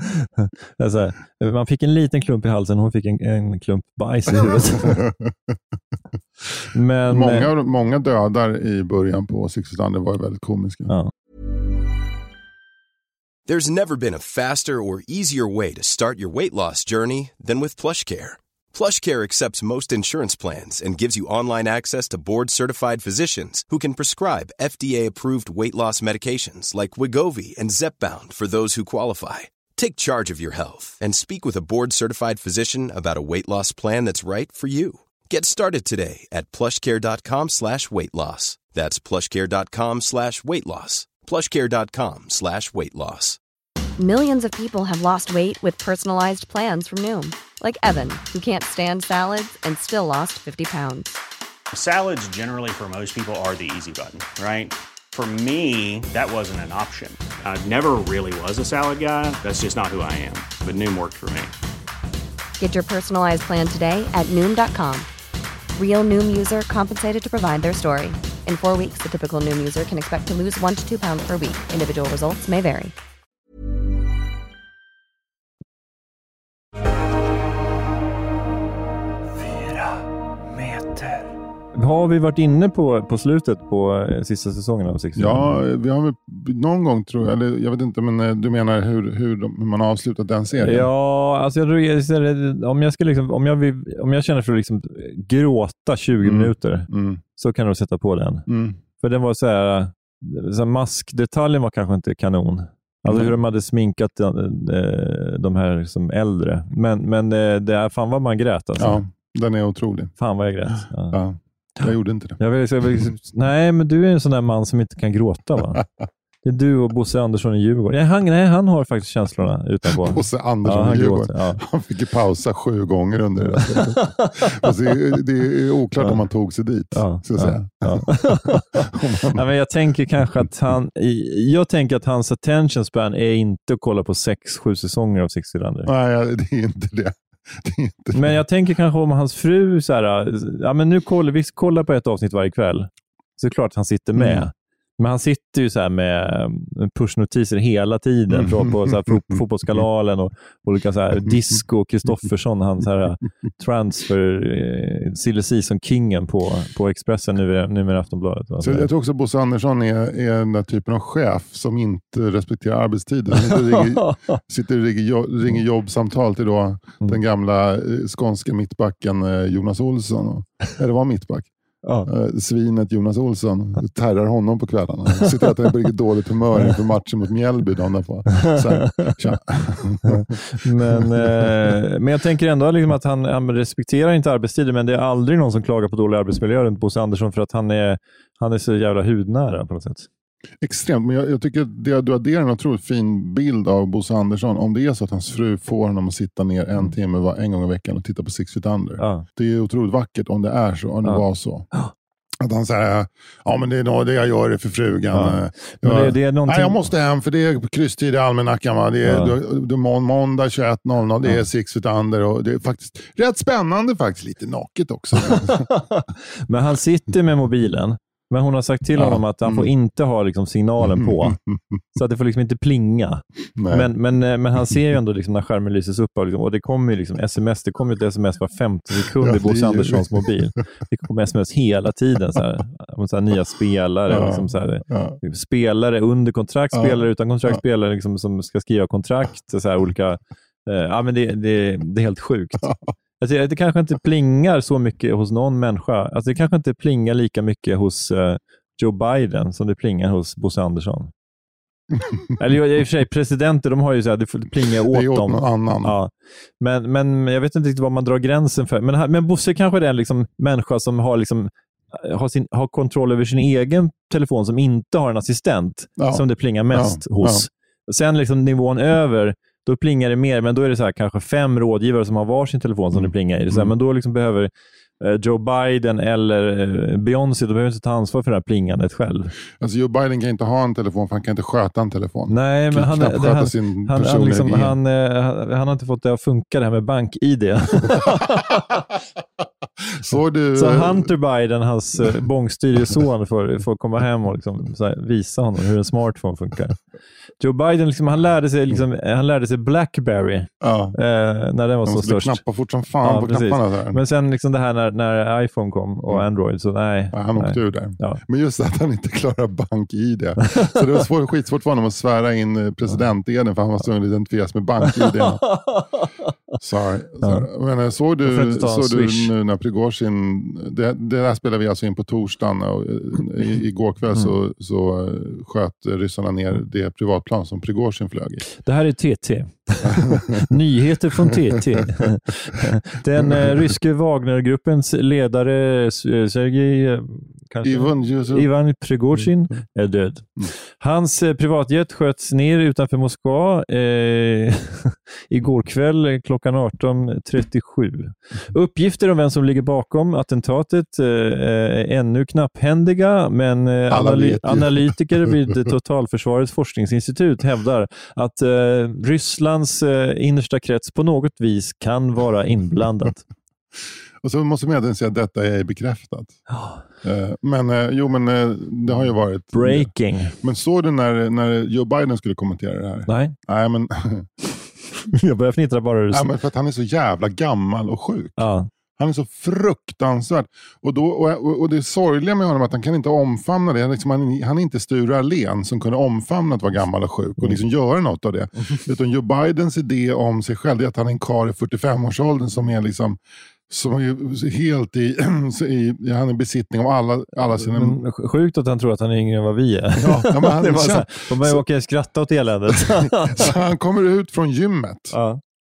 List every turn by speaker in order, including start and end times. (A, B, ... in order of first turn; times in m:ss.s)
0:00.2-0:05.0 A
0:04.5-0:05.3 B
0:06.7-0:07.5 A
0:07.1-0:10.9 B
0:13.5-0:43.4 C
0:44.0-0:51.2 D
0:51.7-1:01.5 E
1:02.6-1:05.1 D
1:05.8-1:12.9 D
1:19.4-1:25.6 A
1:25.2-1:30.9 B
1:30.6-1:38.5 A
1:36.2-1:37.2 B
1:38.5-1:38.8 B
1:39.0-1:49.0 A
1:43.1-1:43.3 B
1:48.8-1:50.1 B
1:50.2-1:51.2 A
1:51.1-1:52.4 B
1:52.4-1:55.8 A
1:56.4-2:01.6 A
1:59.9-2:09.4 B
2:03.5-2:04.7 A
2:06.9-2:15.9 A
2:15.8-2:18.4 B
2:18.1-2:38.9 A
2:24.2-2:24.4 B
2:28.3-2:29.4 B
2:38.6-2:51.5 B
2:43.4-2:44.4 A
2:51.8-2:52.1 A
2:52.0-3:00.4 B
2:58.4-2:59.1 A
3:00.0-3:10.1 A
3:00.9-3:01.5 B
3:10.6-3:21.7 B
3:19.0-3:19.2 A
3:21.0-3:21.9 A
3:22.4-3:35.7 B
3:25.1-3:26.9 A
3:29.0-3:29.4 A
3:35.2-3:41.4 A
3:39.0-3:39.7 B
3:40.8-3:41.4 B
3:41.9-4:11.1 A
3:43.6-3:43.9 B
3:49.2-3:50.3 B
3:54.1-3:55.2 B
3:56.7-3:57.6 B
4:12.0-4:12.3 B
4:12.4-4:39.3 A
4:14.9-4:15.9 B
4:26.0-4:27.5 B
4:32.9-4:33.7 B
4:39.6-4:44.8 B
4:42.3-4:48.8 A
4:50.0-4:51.1 B
4:50.5-4:56.8 A
4:57.4-5:02.4 A
5:00.6-5:01.0 B
5:01.8-5:04.0 B
5:03.0-5:08.2 A
5:07.1-5:15.4 B
5:15.0-5:16.2 A
5:16.6-5:28.4 B
5:17.2-5:17.5 A
5:18.2-5:19.3 A
5:28.5-6:03.2 A
5:29.8-5:30.5 B
5:31.2-5:31.8 B
5:33.2-5:33.5 B
5:37.6-5:38.5 B
5:39.1-5:39.6 B
5:53.9-5:55.4 B
6:04.2-6:06.4 B
6:07.0-6:14.3 B
6:09.5-6:10.4 A
6:13.1-6:13.3 A
6:15.1-6:16.3 A
6:16.1-6:18.4 B
6:18.4-6:18.7 A
6:19.0-6:38.0 B
6:37.7-6:43.5 A
6:40.0-6:41.6 B
6:42.7-6:45.1 B
6:45.1-6:45.4 A